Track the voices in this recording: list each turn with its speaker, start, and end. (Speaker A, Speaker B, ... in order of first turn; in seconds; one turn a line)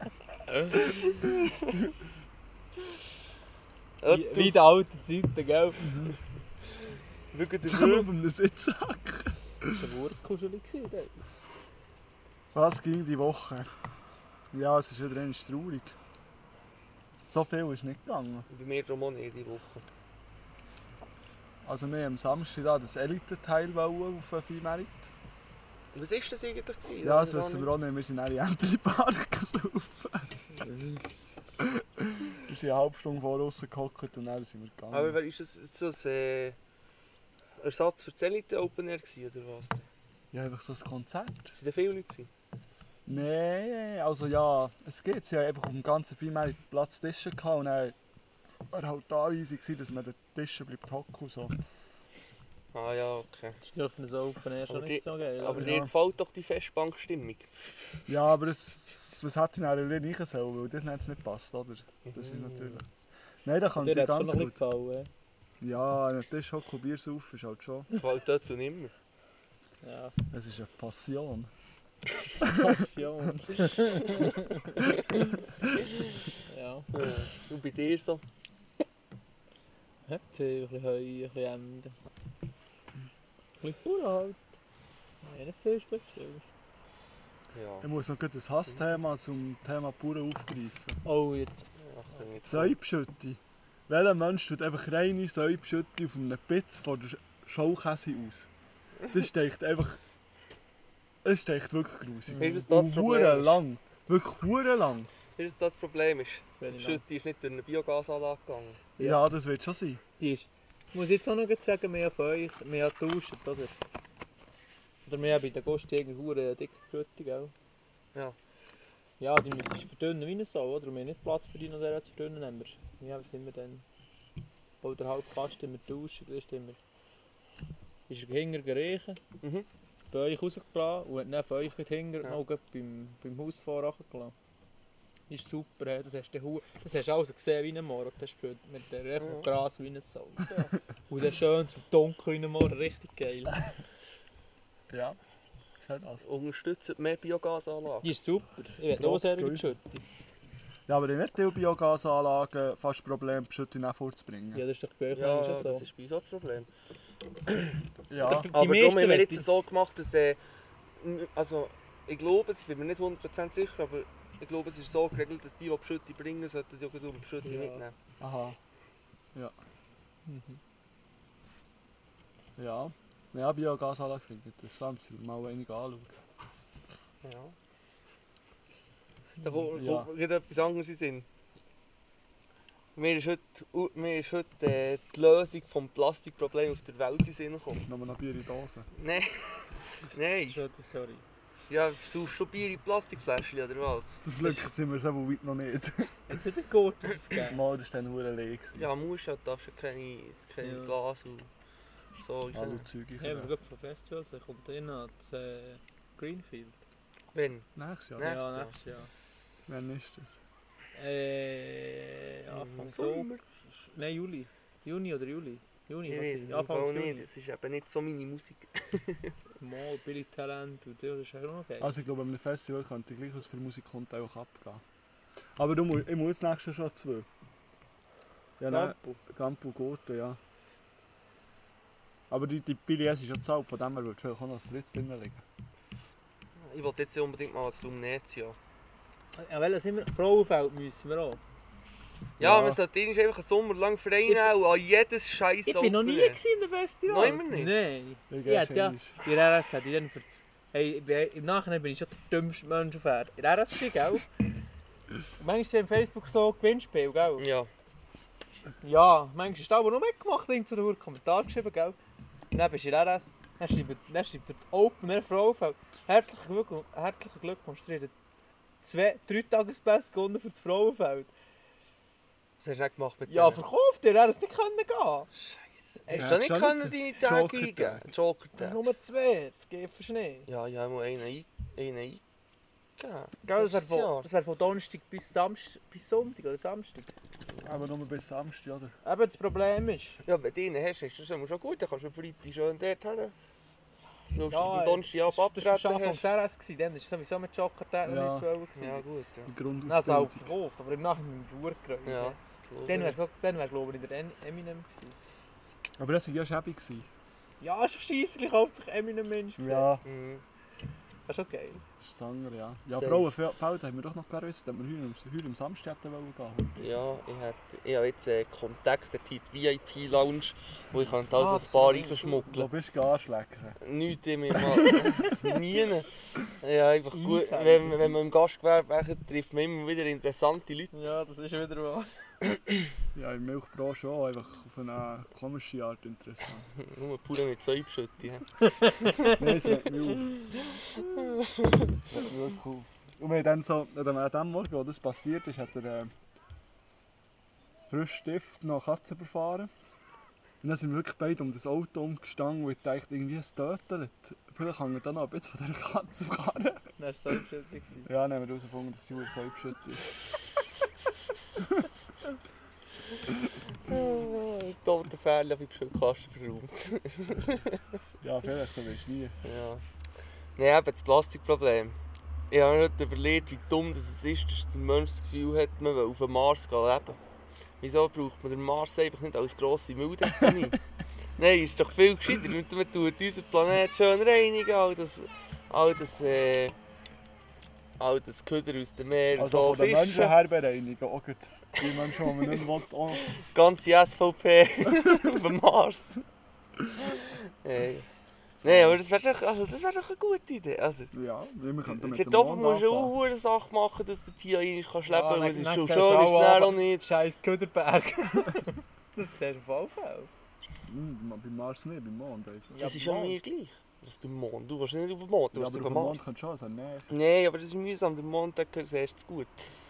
Speaker A: 0.7-1.5
Speaker A: 4.0-4.6
Speaker B: 4.1-5.9
Speaker A: 7.3-8.1
Speaker C: 7.6-9.9
Speaker B: 9.8-11.1
Speaker C: 12.5-13.7
Speaker C: 14.5-15.9
Speaker C: 17.3-18.5
Speaker A: 18.5-19.9
Speaker C: 21.6-25.1
Speaker A: 25.9-27.7
Speaker C: 27.0-30.3
Speaker A: 30.2-31.1
Speaker B: 30.6-31.1
Speaker C: 31.6-35.2
Speaker A: 34.9-36.5
Speaker A: 37.6-39.9
Speaker C: 40.3-41.5
Speaker A: 41.5-42.3
Speaker C: 43.0-48.0
Speaker C: 48.7-51.6
Speaker A: 52.7-53.6
Speaker B: 53.6-55.7
Speaker A: 54.7-57.5
Speaker C: 55.5-55.9
Speaker C: 58.1-62.9
Speaker A: 62.0-62.8
Speaker C: 63.4-64.6
Speaker B: 63.8-65.1
Speaker C: 65.6-67.9
Speaker A: 67.9-68.9
Speaker B: 69.8-70.1
Speaker C: 70.3-71.5
Speaker C: 72.4-72.8
Speaker B: 72.4-74.9
Speaker B: 76.5-76.9
Speaker A: 76.9-78.2
Speaker B: 80.0-81.9
Speaker B: 83.6-84.4
Speaker B: 85.2-86.4
Speaker A: 87.5-87.9
Speaker C: 87.8-91.0
Speaker B: 91.0-91.7
Speaker A: 91.8-92.8
Speaker C: 92.4-98.5
Speaker C: 99.1-100.0
Speaker C: 101.2-105.1
Speaker B: 102.3-102.6
Speaker A: 102.4-103.6
Speaker A: 105.4-108.8
Speaker B: 106.6-107.0
Speaker C: 109.0-110.0
Speaker B: 110.2-113.7
Speaker B: 115.0-117.5
Speaker B: 119.2-123.8
Speaker B: 124.8-126.8
Speaker B: 128.1-129.2
Speaker A: 129.4-129.7
Speaker B: 130.1-134.3
Speaker B: 135.3-143.6
Speaker A: 139.2-139.5
Speaker C: 144.9-145.2
Speaker C: 145.8-146.2
Speaker A: 146.2-148.1
Speaker B: 148.0-150.0
Speaker C: 148.9-149.8
Speaker C: 150.9-154.6
Speaker B: 154.5-155.8
Speaker A: 155.1-156.7
Speaker C: 158.1-158.5
Speaker B: 158.2-159.4
Speaker A: 158.5-160.4
Speaker A: 161.0-167.9
Speaker B: 167.4-167.8
Speaker C: 168.2-168.6
Speaker B: 170.2-170.6
Speaker C: 172.6-176.2
Speaker A: 177.2-177.5
Speaker B: 179.4-179.7
Speaker A: 179.4-181.2
Speaker C: 179.7-180.1
Speaker A: 182.9-187.8
Speaker C: 187.8-188.9
Speaker A: 188.9-190.6
Speaker B: 190.4-191.2
Speaker A: 191.7-194.2
Speaker C: 194.2-196.3
Speaker B: 194.4-194.7
Speaker B: 196.3-197.6
Speaker C: 197.4-198.9
Speaker A: 198.8-201.5
Speaker B: 200.6-200.9
Speaker A: 202.2-202.8
Speaker C: 202.5-203.5
Speaker B: 203.2-206.8
Speaker A: 207.3-208.7
Speaker C: 207.8-208.3
Speaker B: 208.2-209.1
Speaker C: 209.7-210.4
Speaker B: 210.9-217.2
Speaker A: 212.5-213.4
Speaker A: 216.1-219.3
Speaker B: 219.6-221.9
Speaker C: 221.8-224.8
Speaker C: 225.6-227.3
Speaker C: 228.6-230.4
Speaker B: 228.7-229.2
Speaker C: 232.3-235.4
Speaker A: 236.6-238.6
Speaker B: 239.3-241.4
Speaker A: 242.4-246.4
Speaker C: 242.4-242.8
Speaker B: 244.2-244.5
Speaker B: 245.7-254.3
Speaker A: 247.0-247.7
Speaker C: 248.3-249.1
Speaker B: 255.4-257.4
Speaker A: 257.4-257.7
Speaker B: 258.8-262.0
Speaker B: 262.5-268.1
Speaker B: 268.8-271.3
Speaker A: 272.6-273.6
Speaker B: 273.3-275.3
Speaker B: 276.0-276.3
Speaker A: 276.1-278.8
Speaker C: 276.1-278.1
Speaker B: 278.6-280.5
Speaker A: 280.5-282.2
Speaker A: 283.0-284.3
Speaker B: 283.4-287.1
Speaker C: 287.6-288.9
Speaker B: 289.0-290.2
Speaker A: 290.2-293.3
Speaker A: 294.3-296.2
Speaker B: 294.5-299.1
Speaker C: 298.1-298.5
Speaker A: 298.8-299.5
Speaker C: 299.4-300.5
Speaker B: 299.8-305.1
Speaker A: 302.1-303.2
Speaker C: 306.0-307.1
Speaker B: 307.6-309.9
Speaker C: 309.6-310.0
Speaker A: 310.0-310.4
Speaker B: 311.3-311.8
Speaker C: 312.0-316.8
Speaker A: 312.9-313.3
Speaker A: 316.8-322.7
Speaker B: 321.3-322.5
Speaker C: 322.5-323.8
Speaker A: 323.8-326.1
Speaker B: 325.2-325.5
Speaker A: 326.6-330.9
Speaker B: 327.1-328.2
Speaker B: 330.9-332.1
Speaker C: 333.1-336.7
Speaker A: 336.8-339.2
Speaker B: 338.6-339.7
Speaker C: 339.2-340.5
Speaker B: 340.6-341.2
Speaker A: 341.0-341.9
Speaker C: 342.1-346.1
Speaker C: 347.9-349.7
Speaker C: 350.6-356.8
Speaker B: 357.0-358.1
Speaker C: 358.0-360.2
Speaker C: 361.6-361.9
Speaker A: 363.9-367.8
Speaker C: 368.2-369.4
Speaker A: 369.4-369.8
Speaker A: 370.6-372.0
Speaker A: 372.5-377.2
Speaker A: 377.8-380.8
Speaker A: 381.4-386.7
Speaker A: 388.0-390.4
Speaker C: 389.4-393.2
Speaker A: 393.2-396.2
Speaker A: 397.0-398.1
Speaker C: 398.6-399.0
Speaker A: 398.6-401.1
Speaker C: 401.1-403.1
Speaker A: 401.9-407.1
Speaker B: 405.1-410.3
Speaker C: 410.9-412.8
Speaker B: 412.7-413.4
Speaker A: 412.8-416.2
Speaker C: 415.5-417.1
Speaker A: 417.1-419.6